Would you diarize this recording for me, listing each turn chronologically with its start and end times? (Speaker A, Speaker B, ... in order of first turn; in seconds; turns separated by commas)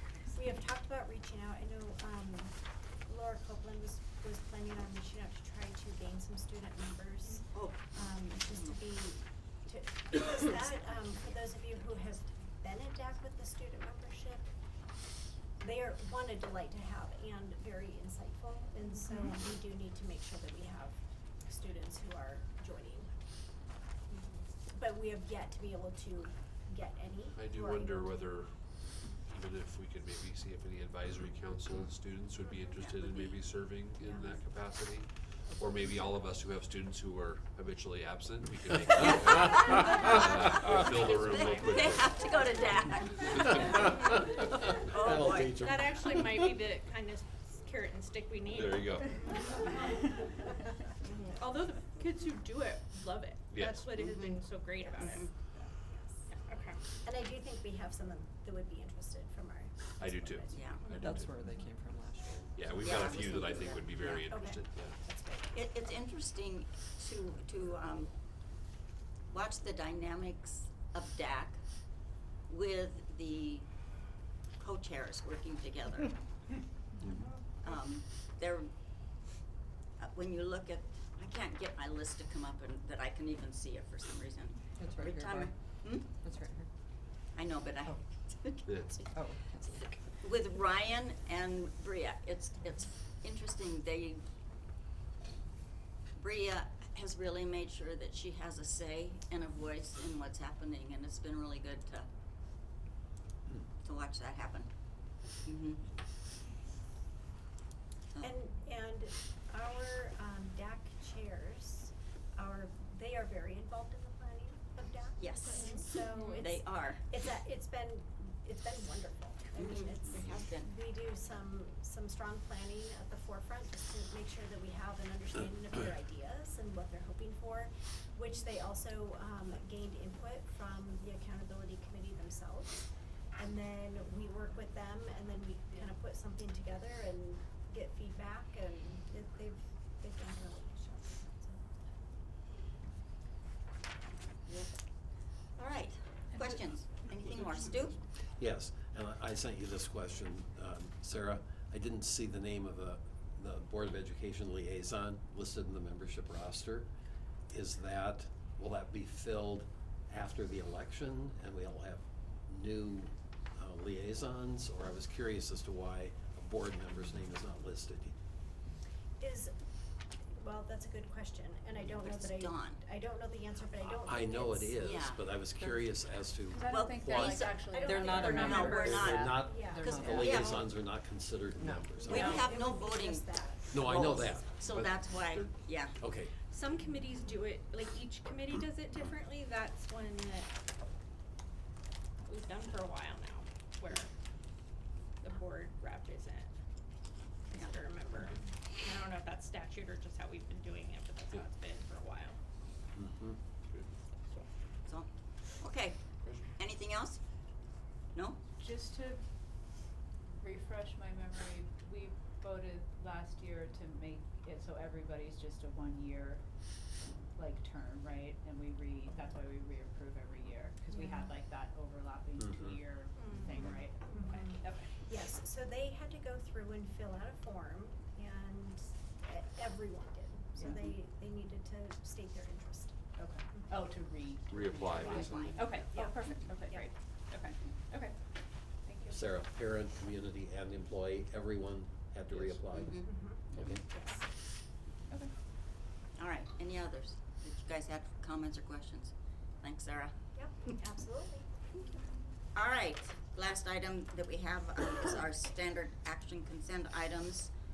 Speaker A: 0.3-14.5, Speaker B: 7.5-7.9, Speaker A: 15.6-23.1, Speaker A: 24.7-28.1, Speaker C: 27.3-42.5, Speaker B: 32.8-33.4, Speaker D: 40.6-41.8, Speaker B: 41.1-45.6, Speaker C: 43.2-43.7, Speaker E: 43.6-44.3, Speaker D: 43.8-44.2, Speaker E: 44.9-46.6, Speaker D: 45.6-49.8, Speaker C: 48.5-49.7, Speaker D: 51.1-55.3, Speaker C: 53.5-53.8, Speaker B: 54.0-54.4, Speaker B: 55.0-55.3, Speaker A: 55.9-56.2, Speaker D: 56.3-56.9, Speaker A: 56.9-60.6, Speaker C: 60.0-61.4, Speaker B: 60.5-60.8, Speaker F: 61.0-64.0, Speaker C: 62.5-65.0, Speaker B: 62.8-63.5, Speaker A: 64.1-65.5, Speaker B: 65.5-68.1, Speaker B: 69.3-71.7, Speaker B: 72.5-73.7, Speaker B: 74.6-76.2, Speaker B: 77.6-78.7, Speaker B: 80.0-86.1, Speaker F: 84.8-85.5, Speaker F: 86.1-86.7, Speaker B: 87.3-89.1, Speaker C: 88.7-89.1, Speaker F: 89.1-90.0, Speaker B: 89.8-94.2, Speaker B: 96.2-102.1, Speaker B: 103.8-104.7, Speaker B: 105.4-105.8, Speaker A: 108.2-141.8, Speaker B: 115.2-117.0, Speaker D: 115.7-116.4, Speaker B: 119.5-120.7, Speaker B: 144.5-144.8, Speaker B: 145.5-148.0, Speaker E: 148.4-156.9, Speaker E: 157.5-168.1, Speaker A: 169.2-169.5, Speaker A: 170.3-174.9, Speaker B: 171.9-172.8, Speaker E: 173.9-182.5, Speaker B: 174.8-175.2, Speaker G: 175.6-175.9, Speaker G: 176.5-179.5, Speaker B: 176.7-180.6, Speaker A: 177.7-180.0, Speaker F: 177.8-180.6, Speaker D: 178.3-179.0, Speaker F: 181.6-182.0, Speaker A: 182.0-184.4, Speaker B: 182.1-186.0, Speaker D: 182.1-182.4, Speaker E: 183.7-184.5, Speaker C: 184.7-185.5, Speaker E: 186.0-186.3, Speaker D: 186.5-190.5, Speaker D: 192.2-194.1, Speaker D: 195.2-196.5, Speaker D: 197.5-202.4, Speaker E: 203.0-203.4, Speaker B: 204.9-207.2, Speaker B: 208.1-208.4, Speaker G: 208.6-209.2, Speaker G: 210.4-216.4, Speaker G: 217.4-224.8, Speaker A: 220.9-221.3, Speaker E: 222.4-222.7, Speaker D: 223.2-223.7, Speaker A: 225.0-233.0, Speaker G: 233.2-238.1, Speaker C: 234.5-235.8, Speaker B: 235.2-235.6, Speaker G: 238.9-239.1, Speaker E: 239.1-243.8, Speaker B: 242.7-243.7, Speaker A: 243.1-244.2, Speaker B: 246.2-250.2, Speaker A: 250.3-251.5, Speaker B: 252.5-257.5